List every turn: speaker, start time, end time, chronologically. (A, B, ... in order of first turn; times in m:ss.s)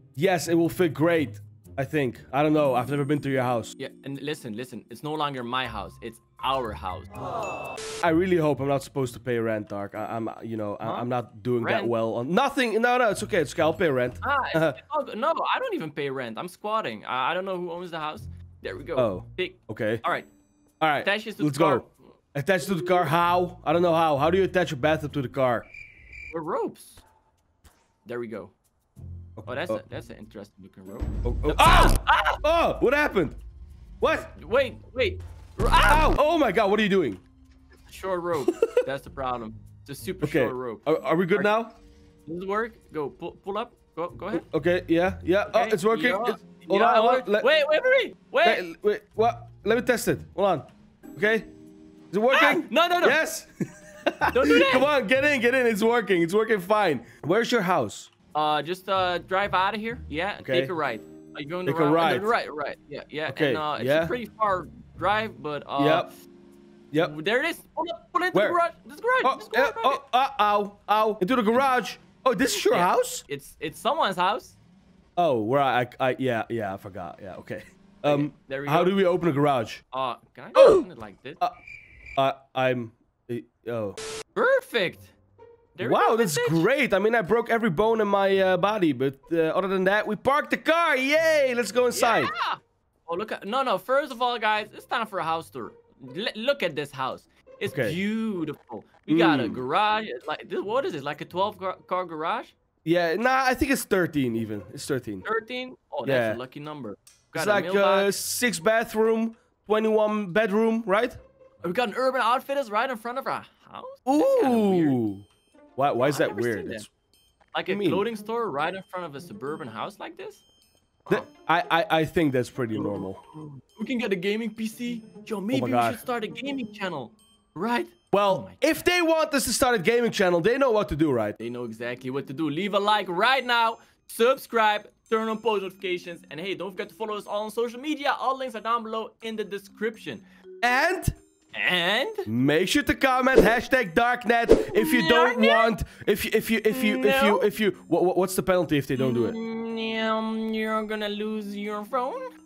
0:00.2-0:03.7 A
0:03.8-0:07.2 B
0:08.0-0:14.8 A
0:10.8-0:11.1 B
0:11.6-0:11.9 B
0:14.2-0:20.3 B
0:19.0-0:20.0 A
0:20.8-0:25.7 A
0:21.0-0:21.9 B
0:26.3-0:27.0 B
0:28.0-0:28.5 B
0:29.4-0:29.8 A
0:29.4-0:32.4 B
0:31.2-0:33.4 A
0:34.0-0:34.3 A
0:34.4-0:36.1 B
0:35.8-0:37.2 A
0:37.9-0:41.5 B
0:38.5-0:38.8 A
0:40.2-0:41.8 A
0:42.2-0:44.4 B
0:44.3-0:47.5 A
0:45.5-0:48.6 B
0:48.4-0:51.5 A
0:52.1-0:58.1 A
0:52.3-0:53.2 B
0:54.3-0:54.9 B
0:58.3-1:06.1 B
1:00.4-1:00.7 A
1:01.6-1:02.3 A
1:03.3-1:04.1 A
1:05.8-1:06.1 A
1:07.0-1:10.0 B
1:08.3-1:08.6 A
1:09.2-1:13.2 A
1:12.5-1:14.6 B
1:15.2-1:19.8 A
1:18.0-1:19.0 B
1:19.9-1:21.4 B
1:20.5-1:20.8 A
1:22.2-1:24.0 A
1:24.4-1:25.1 B
1:25.8-1:26.7 B
1:25.8-1:32.3 A
1:31.9-1:42.5 B
1:37.7-1:38.0 A
1:39.1-1:39.6 A
1:42.8-1:45.2 A
1:45.2-1:48.2 B
1:46.0-1:46.4 A
1:47.3-1:51.2 A
1:51.6-1:55.0 B
1:54.0-1:55.2 A
1:55.8-1:56.9 A
1:56.0-1:56.8 B
1:57.5-2:00.4 B
1:57.7-1:58.0 A
2:01.1-2:03.2 A
2:02.8-2:08.6 B
2:05.5-2:06.0 A
2:08.1-2:11.4 A
2:11.4-2:20.2 B
2:20.6-2:21.2 A
2:21.5-2:22.3 B
2:22.3-2:29.4 A
2:24.7-2:25.7 B
2:26.7-2:27.4 B
2:29.0-2:32.3 B